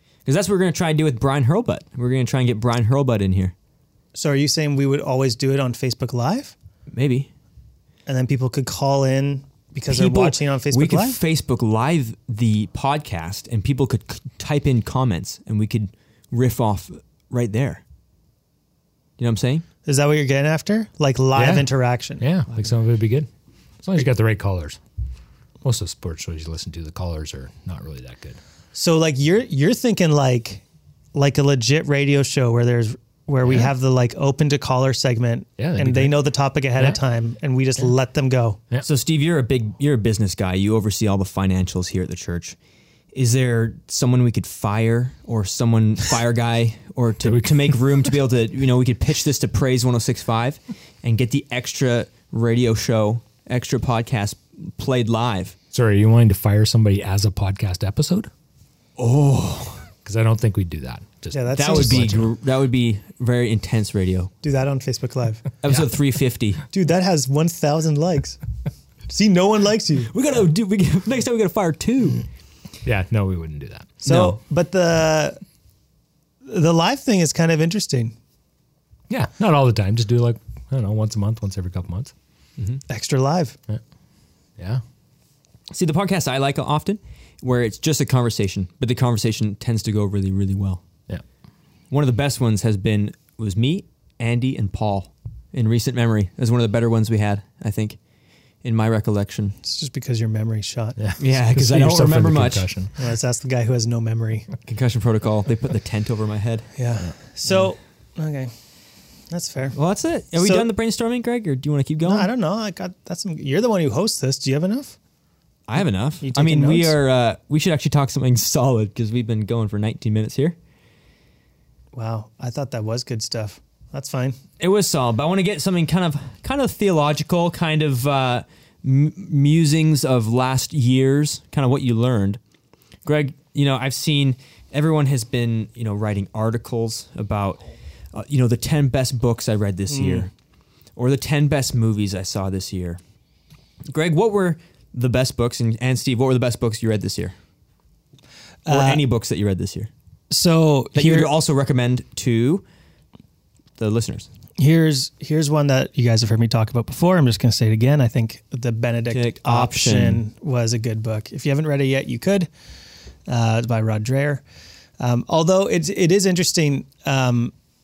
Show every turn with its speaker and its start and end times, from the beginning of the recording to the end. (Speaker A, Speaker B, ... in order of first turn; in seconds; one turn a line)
Speaker A: 0.2-3.5
Speaker B: 4.2-6.5
Speaker A: 6.9-7.3
Speaker B: 8.1-11.2
Speaker A: 9.9-17.8
Speaker A: 19.2-19.6
Speaker B: 19.9-22.2
Speaker C: 21.4-21.7
Speaker C: 22.2-23.3
Speaker C: 23.8-24.8
Speaker C: 25.6-28.4
Speaker B: 28.8-38.6
Speaker C: 35.6-36.1
Speaker A: 38.8-42.6
Speaker A: 43.1-55.5
Speaker C: 47.2-47.8
Speaker C: 55.7-58.3
Speaker A: 59.0-59.9
Speaker C: 60.0-62.3
Speaker B: 61.3-62.2
Speaker A: 61.6-64.3
Speaker B: 64.4-65.5
Speaker A: 65.6-66.6
Speaker B: 66.7-68.4
Speaker B: 69.1-70.1
Speaker A: 70.1-72.2
Speaker C: 72.8-74.0
Speaker B: 74.0-75.4
Speaker A: 74.1-74.4
Speaker B: 76.5-78.2
Speaker C: 79.1-82.1
Speaker B: 82.9-83.6
Speaker A: 85.7-90.8
Speaker A: 91.9-98.0
Speaker A: 98.6-99.6
Speaker B: 99.6-101.0
Speaker C: 101.0-102.9
Speaker A: 101.2-102.7
Speaker B: 103.0-104.5
Speaker A: 104.7-106.7
Speaker B: 106.8-108.5
Speaker B: 109.3-109.8
Speaker A: 109.8-112.3
Speaker B: 110.4-110.7
Speaker B: 112.0-115.0
Speaker A: 115.7-120.6
Speaker B: 116.2-117.0
Speaker B: 121.9-124.4
Speaker A: 124.6-132.4
Speaker A: 133.1-137.6
Speaker A: 138.1-140.3
Speaker B: 139.9-140.3
Speaker A: 141.0-143.0
Speaker A: 143.9-147.3
Speaker B: 148.7-149.0
Speaker A: 148.7-149.9
Speaker B: 150.3-151.3
Speaker A: 150.9-152.6
Speaker A: 153.8-154.3
Speaker B: 154.6-162.5
Speaker A: 159.1-160.2
Speaker B: 163.3-164.4
Speaker B: 165.0-167.5